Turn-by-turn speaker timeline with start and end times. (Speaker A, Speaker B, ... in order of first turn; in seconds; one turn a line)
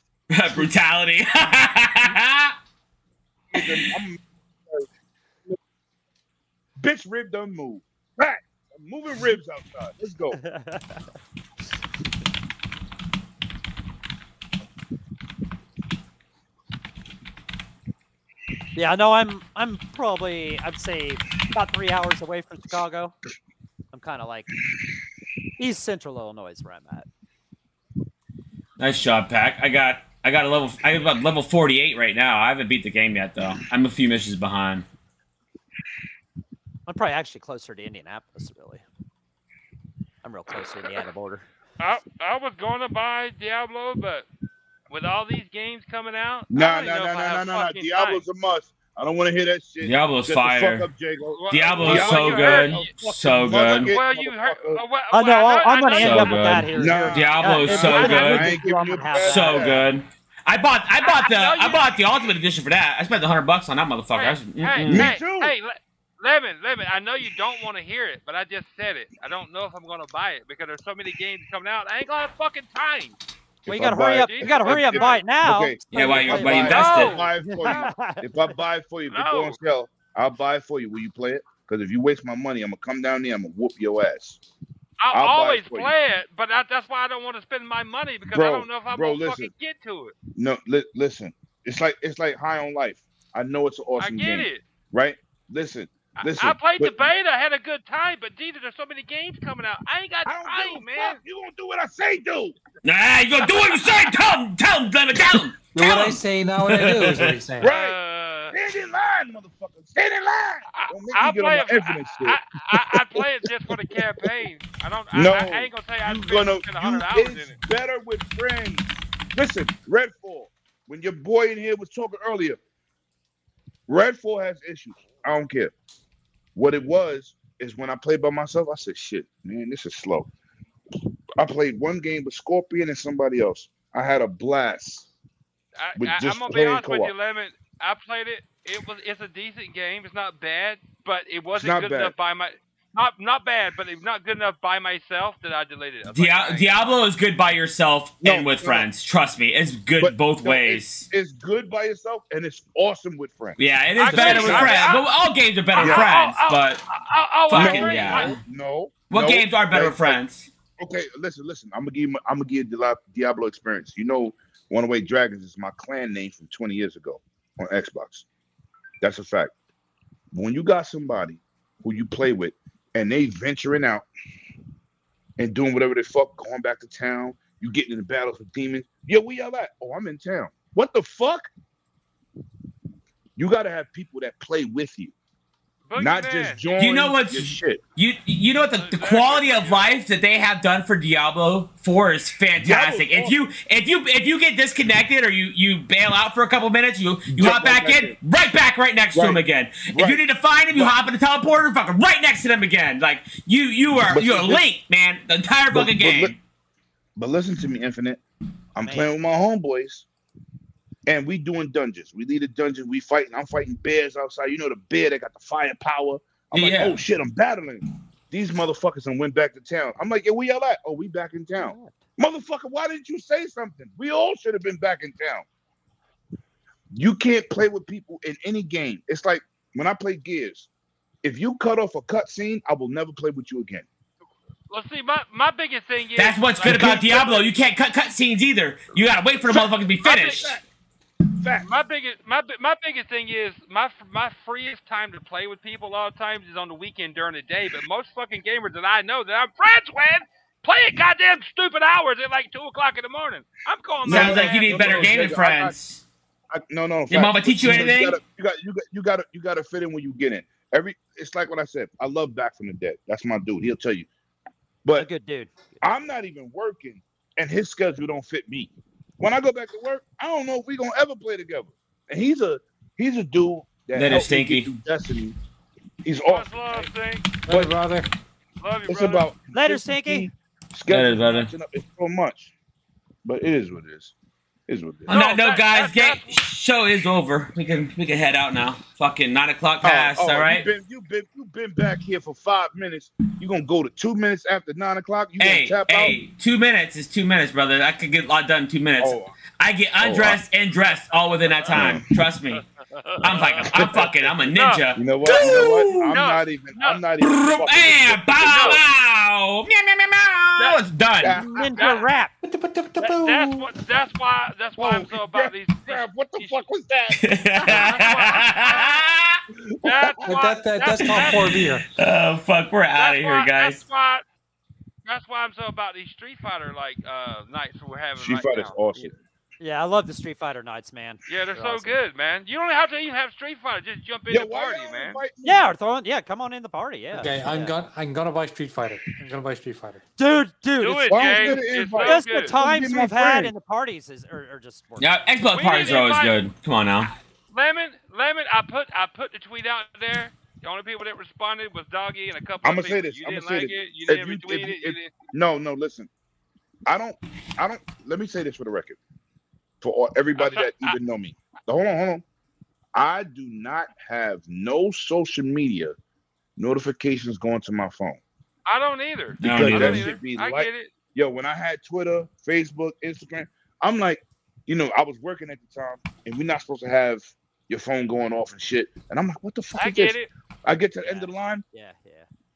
Speaker A: 0.3-2.5
Speaker B: 3.5-4.9
Speaker B: 6.8-10.4
Speaker C: 10.3-11.0
Speaker C: 18.8-23.1
Speaker C: 23.9-24.5
Speaker C: 25.6-27.1
Speaker A: 28.8-34.9
Speaker C: 36.9-38.8
Speaker C: 40.2-41.5
Speaker D: 41.8-44.3
Speaker D: 44.9-48.2
Speaker B: 46.5-54.8
Speaker A: 49.8-50.9
Speaker D: 51.3-57.0
Speaker A: 51.5-53.9
Speaker C: 55.1-59.9
Speaker A: 56.0-58.5
Speaker B: 56.7-59.8
Speaker A: 59.2-65.1
Speaker D: 61.0-61.9
Speaker D: 64.2-73.2
Speaker B: 64.9-65.5
Speaker C: 73.7-78.6
Speaker B: 73.7-84.4
Speaker D: 73.9-75.2
Speaker A: 75.9-77.2
Speaker D: 76.7-77.9
Speaker D: 79.1-79.6
Speaker D: 85.0-90.2
Speaker B: 85.1-85.9
Speaker B: 88.3-89.5
Speaker B: 90.4-97.0
Speaker D: 94.0-94.7
Speaker D: 96.2-101.2
Speaker B: 100.2-102.6
Speaker A: 102.8-107.4
Speaker E: 105.8-107.7
Speaker B: 107.6-108.0
Speaker D: 107.6-108.5
Speaker B: 108.5-114.4
Speaker D: 110.7-117.6
Speaker B: 115.1-122.6
Speaker B: 123.9-125.7
Speaker B: 126.5-130.3
Speaker B: 131.4-135.1
Speaker D: 135.8-146.8
Speaker B: 136.0-137.1
Speaker B: 141.6-142.1
Speaker A: 146.1-151.1
Speaker B: 148.2-148.9
Speaker B: 150.0-155.0
Speaker A: 153.6-156.8
Speaker D: 154.0-155.1
Speaker D: 155.7-158.4
Speaker B: 155.8-156.1
Speaker A: 157.5-158.4
Speaker B: 157.5-160.2
Speaker A: 159.1-160.5
Speaker B: 160.8-168.3
Speaker B: 169.0-169.5
Speaker B: 170.3-174.1
Speaker B: 175.4-181.5
Speaker B: 183.4-185.1
Speaker D: 185.9-186.7
Speaker B: 186.0-187.8
Speaker A: 186.8-206.4
Speaker D: 188.7-190.0
Speaker B: 192.6-193.4
Speaker B: 197.3-198.2
Speaker B: 199.2-200.2
Speaker B: 204.1-204.6
Speaker B: 205.7-206.3
Speaker B: 207.2-208.2
Speaker B: 208.8-210.1
Speaker C: 208.8-209.1
Speaker B: 211.1-225.5
Speaker A: 216.5-217.0
Speaker C: 221.6-222.1
Speaker B: 226.9-230.7
Speaker B: 231.2-233.9
Speaker D: 234.7-237.0
Speaker A: 236.2-240.6
Speaker B: 236.7-237.5
Speaker B: 239.4-240.6
Speaker D: 240.0-240.5
Speaker B: 241.4-241.7
Speaker D: 241.6-255.4
Speaker B: 254.0-255.8
Speaker A: 254.1-256.0
Speaker B: 256.5-264.1
Speaker A: 257.1-258.2
Speaker C: 264.9-265.9
Speaker B: 265.8-275.4
Speaker A: 273.9-274.7
Speaker B: 276.0-276.9
Speaker D: 276.2-277.3
Speaker E: 277.5-278.1
Speaker B: 277.5-277.8
Speaker D: 278.6-279.3
Speaker B: 278.9-282.5
Speaker C: 279.5-280.3
Speaker A: 280.9-281.5
Speaker B: 283.2-284.1
Speaker B: 284.7-285.1
Speaker A: 285.1-290.7
Speaker D: 285.1-286.4
Speaker B: 289.8-296.2
Speaker A: 295.4-302.6
Speaker B: 299.0-299.4
Speaker B: 300.0-300.4
Speaker D: 301.2-302.0
Speaker B: 301.7-302.0
Speaker D: 302.5-303.8
Speaker A: 303.2-306.2
Speaker B: 303.7-304.3
Speaker D: 304.4-307.1
Speaker B: 304.9-308.8
Speaker A: 307.2-311.4
Speaker D: 308.4-308.8
Speaker B: 311.2-311.8
Speaker C: 311.3-312.3
Speaker D: 311.8-312.1
Speaker E: 312.4-313.7
Speaker D: 313.0-316.6
Speaker B: 314.8-317.9
Speaker A: 317.2-319.4
Speaker D: 317.7-319.1
Speaker D: 319.8-321.6
Speaker B: 319.9-320.2
Speaker E: 320.2-321.9
Speaker A: 322.0-323.8
Speaker D: 323.0-324.2
Speaker D: 325.1-328.8
Speaker B: 328.2-329.2
Speaker C: 329.6-332.0
Speaker D: 331.3-335.2
Speaker B: 334.3-335.8
Speaker C: 335.4-337.8
Speaker E: 337.1-340.0
Speaker C: 340.2-345.1
Speaker D: 340.8-342.6
Speaker B: 341.1-343.5
Speaker A: 345.0-347.1
Speaker D: 345.5-346.5
Speaker D: 347.5-355.1
Speaker B: 352.6-356.1
Speaker B: 356.9-359.0
Speaker B: 359.8-362.2
Speaker D: 360.4-360.9
Speaker B: 362.9-365.9
Speaker B: 366.6-368.2
Speaker D: 368.7-370.9
Speaker B: 369.4-381.6
Speaker A: 369.4-370.1
Speaker D: 379.8-380.3
Speaker C: 381.0-382.3